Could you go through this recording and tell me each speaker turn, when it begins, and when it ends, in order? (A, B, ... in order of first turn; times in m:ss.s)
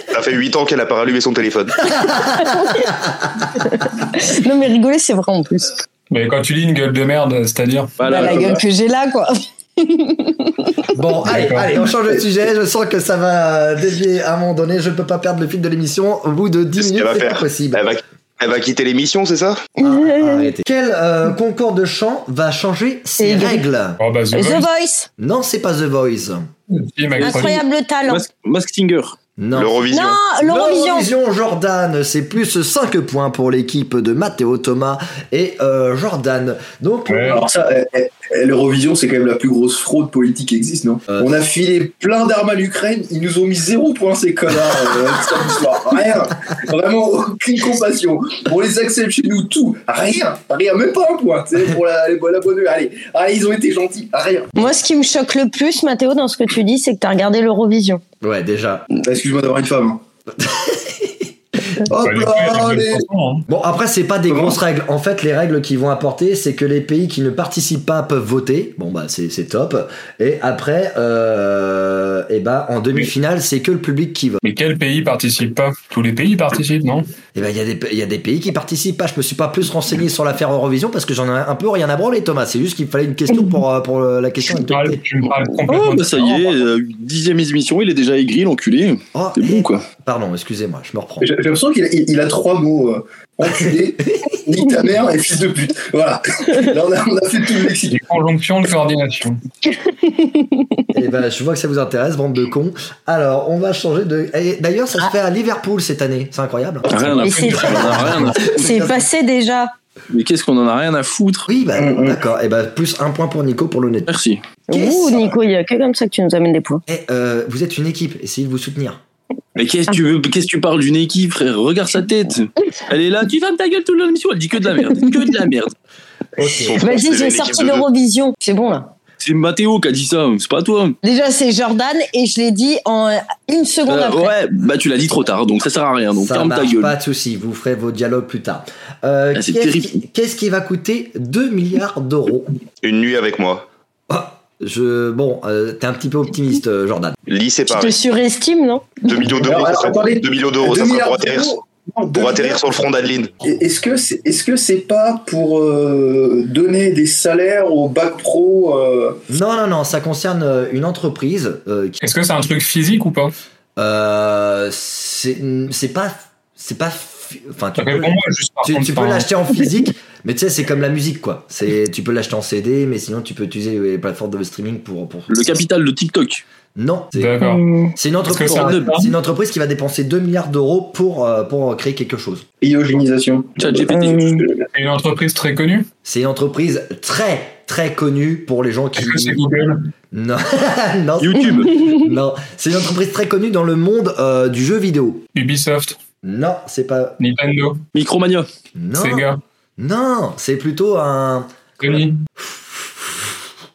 0:00.1-0:02.1 A
0:01.9-0:03.3 B
0:02.4-0:02.9 C
0:03.5-0:05.8 C
0:06.1-0:08.0 D
0:08.0-0:08.4 E
0:08.0-0:08.6 F
0:08.1-0:10.8 C
0:10.9-0:17.9 B
0:11.2-0:11.7 D
0:16.8-0:19.6 A
0:19.8-0:20.5 C
0:19.8-0:24.0 B
0:23.2-0:23.6 C
0:24.0-0:24.7 D
0:24.3-0:25.1 C
0:25.2-0:26.5 B
0:26.7-0:27.6 D
0:27.2-0:28.2 C
0:27.2-0:29.2 E
0:29.4-0:37.4 B
0:29.5-0:30.2 A
0:29.9-0:31.1 C
0:37.1-0:37.4 D
0:37.3-0:54.5 F
0:54.6-0:58.0 C
0:58.2-0:58.8 B
0:59.0-1:00.0 F
1:00.4-1:02.8 B
1:02.0-1:03.5 D
1:02.6-1:02.9 F
1:03.5-1:14.4 B
1:04.3-1:04.6 F
1:14.4-1:17.1 D
1:17.3-1:25.0 B
1:24.7-1:26.6 D
1:25.7-1:29.8 E
1:29.2-1:31.3 B
1:31.2-1:38.0 F
1:33.4-1:33.7 B
1:37.9-1:39.4 D
1:39.6-1:40.9 C
1:40.9-1:49.1 B
1:46.9-1:48.7 E
1:46.9-1:48.4 D
1:47.2-1:49.7 C
1:50.1-1:51.5 E
1:51.5-1:54.1 B
1:51.8-1:52.2 F
1:54.1-1:54.4 E
1:54.7-1:55.4 B
1:54.7-1:56.8 C
1:56.9-1:59.0 B
1:59.6-2:05.7 E
2:06.4-2:06.8 B
2:06.4-2:08.9 C
2:06.6-2:07.9 A
2:09.2-2:11.0 E
2:11.0-2:14.3 C
2:13.9-2:16.9 E
2:16.1-2:22.6 B
2:19.4-2:20.0 E
2:22.8-2:23.7 A
2:24.1-2:27.2 B
2:27.3-2:28.0 A
2:27.7-2:29.1 C
2:29.0-2:31.5 A
2:29.4-2:32.7 F
2:32.1-2:33.3 A
2:33.4-2:39.2 F
2:39.3-2:42.0 B
2:42.0-2:43.3 D
2:43.8-2:55.6 B
2:47.8-2:49.3 D
2:55.3-2:56.4 E
2:56.8-2:57.4 B
2:57.2-2:57.6 D
2:58.0-3:02.4 B
2:58.3-2:59.1 D
2:58.4-2:58.9 E
3:02.6-3:04.7 F
3:03.6-3:04.5 E
3:04.7-3:05.9 D
3:06.0-3:09.4 B
3:09.0-3:09.8 D
3:10.1-3:15.3 B
3:11.2-3:11.8 E
3:15.4-3:16.0 D
3:16.2-3:17.2 B
3:17.2-3:17.8 D
3:17.9-3:18.5 E
3:18.8-3:23.4 B
3:19.0-3:19.4 D
3:21.8-3:22.2 D